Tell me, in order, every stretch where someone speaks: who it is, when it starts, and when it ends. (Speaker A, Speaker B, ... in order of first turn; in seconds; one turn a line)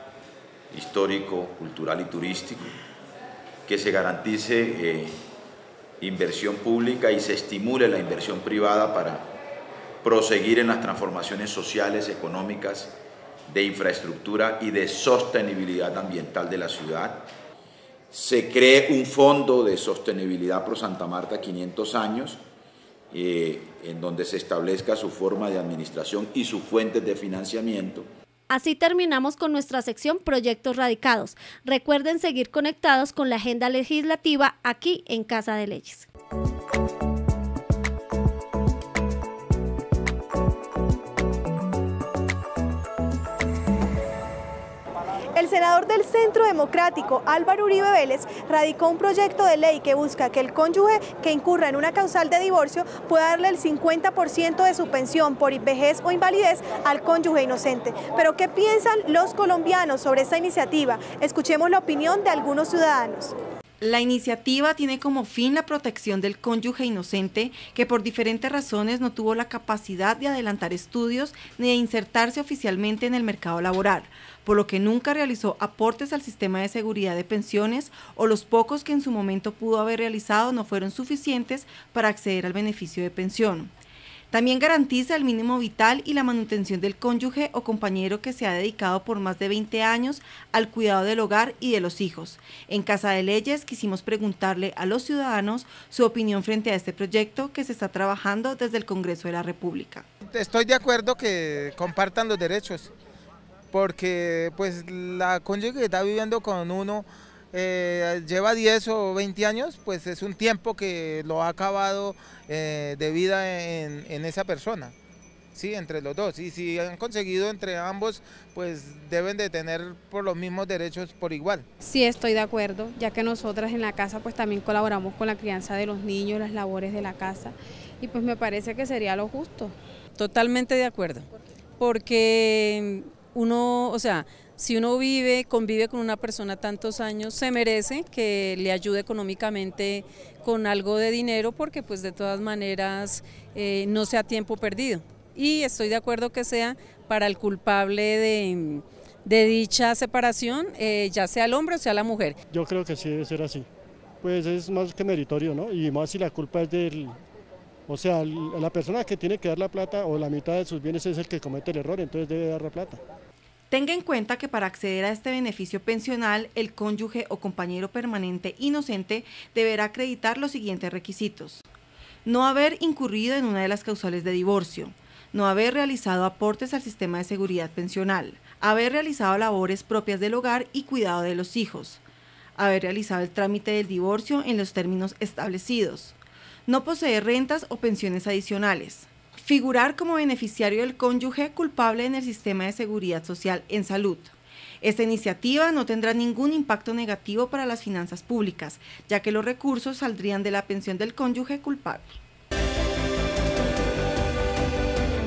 Speaker A: 0.7-2.7
Speaker A: 3.7-5.2
Speaker A: 6.0-9.2
Speaker A: 10.0-12.9
Speaker A: 13.5-17.3
Speaker A: 18.1-22.4
Speaker A: 23.1-28.1
Speaker B: 28.5-36.1
Speaker C: 45.4-63.3
Speaker D: 63.8-83.7
Speaker D: 84.3-100.0
Speaker E: 100.2-102.9
Speaker E: 103.7-114.9
Speaker E: 115.5-121.7
Speaker F: 121.8-129.7
Speaker G: 130.2-131.3
Speaker G: 131.8-152.4
Speaker H: 152.5-153.7
Speaker H: 154.2-157.2
Speaker H: 157.9-163.0
Speaker D: 163.7-171.6
Speaker D: 172.2-182.0
Speaker D: 182.6-186.2
Speaker D: 186.7-202.2